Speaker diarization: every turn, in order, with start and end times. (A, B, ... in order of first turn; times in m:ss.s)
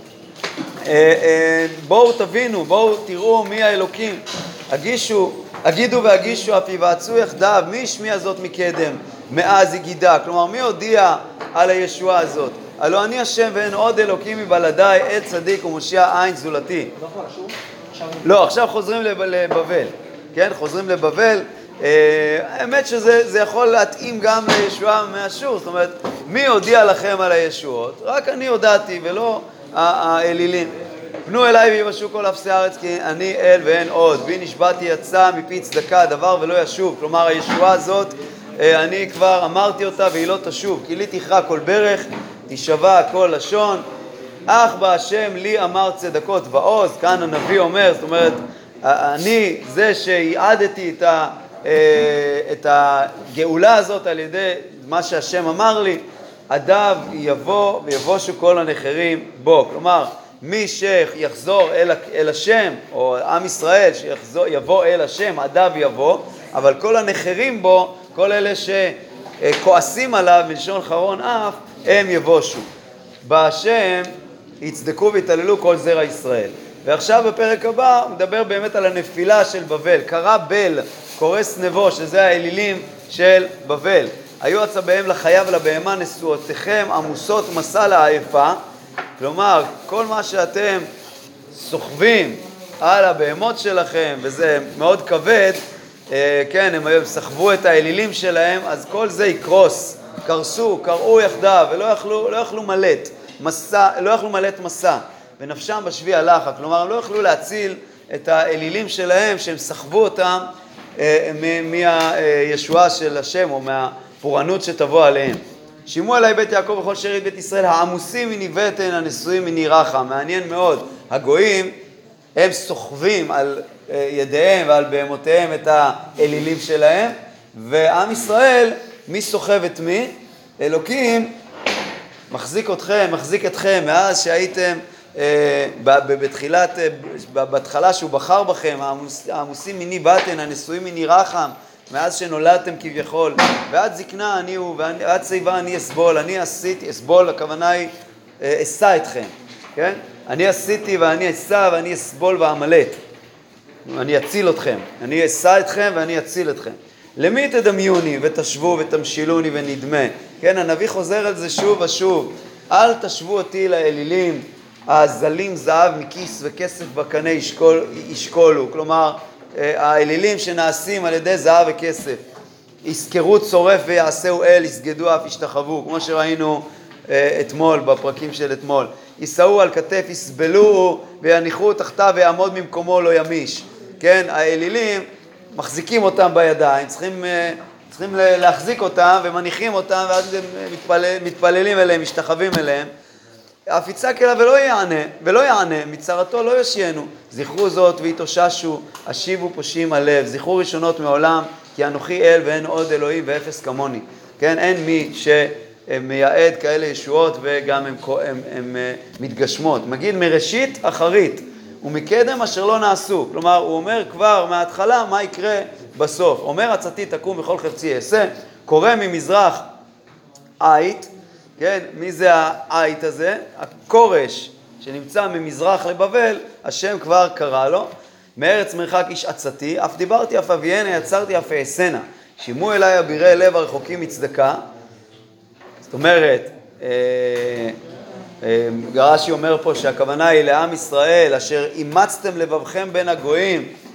0:00.8-0:16.9 A
0:18.2-0:30.7 A
0:31.2-0:43.8 A
0:44.5-1:12.7 A
1:13.2-1:28.6 A
1:29.2-1:30.9 A
1:31.5-2:01.7 A
2:02.3-2:11.3 A
2:12.3-2:33.0 A
2:33.8-2:52.2 A
2:52.8-3:12.9 A
3:13.7-3:39.6 A
3:40.6-3:54.6 A
3:55.8-3:57.8 A
3:58.4-4:03.7 A